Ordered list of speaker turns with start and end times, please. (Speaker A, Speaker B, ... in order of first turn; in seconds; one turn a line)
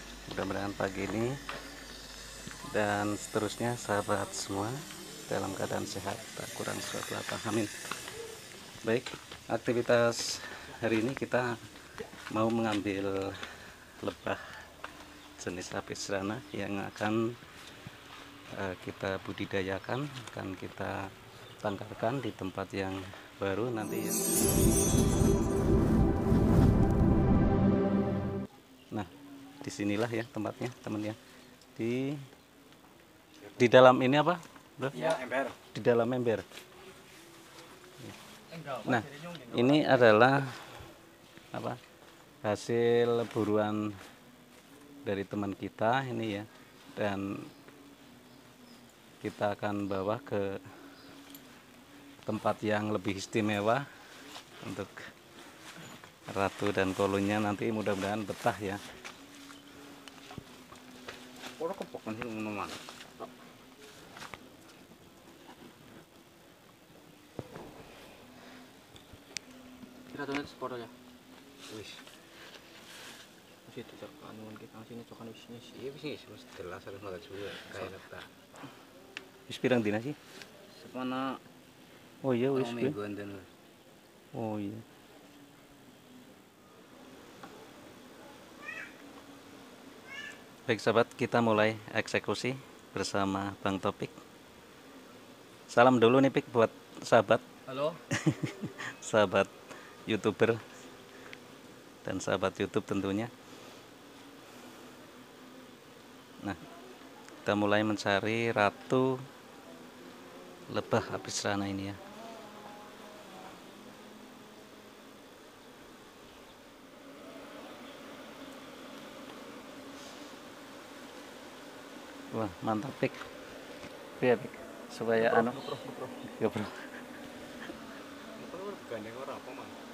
Speaker A: 0.3-1.4
Speaker A: 2.7-7.7
Speaker A: 8.8-11.6
Speaker A: 12.3-14.6
Speaker A: 15.4-17.4
Speaker A: 18.5-24.3
Speaker A: 29.6-31.2
Speaker A: 31.8-32.3
Speaker A: 33.6-35.0
Speaker B: 34.9-35.6
Speaker C: 35.0-35.2
Speaker A: 35.7-36.5
Speaker C: 38.5-40.1
Speaker A: 38.9-40.6
Speaker A: 41.5-41.8
Speaker A: 42.4-44.0
Speaker A: 45.0-47.5
Speaker A: 49.2-50.7
Speaker A: 52.2-53.9
Speaker A: 54.6-55.1
Speaker A: 56.3-58.8
Speaker B: 61.6-62.8
Speaker C: 70.1-70.9
Speaker B: 71.7-72.0
Speaker C: 73.7-75.8
Speaker B: 75.7-78.3
Speaker A: 79.5-80.2
Speaker B: 80.7-81.4
Speaker A: 82.2-83.0
Speaker B: 82.5-83.5
Speaker A: 84.3-84.8
Speaker A: 90.7-94.2
Speaker A: 95.7-97.4
Speaker C: 97.7-98.0
Speaker A: 98.1-99.5
Speaker A: 100.1-100.6
Speaker A: 102.0-103.3
Speaker A: 107.5-109.2
Speaker A: 110.7-112.0
Speaker A: 122.3-123.2
Speaker A: 124.2-125.6
Speaker C: 125.1-126.2
Speaker A: 126.2-127.1
Speaker B: 128.4-129.8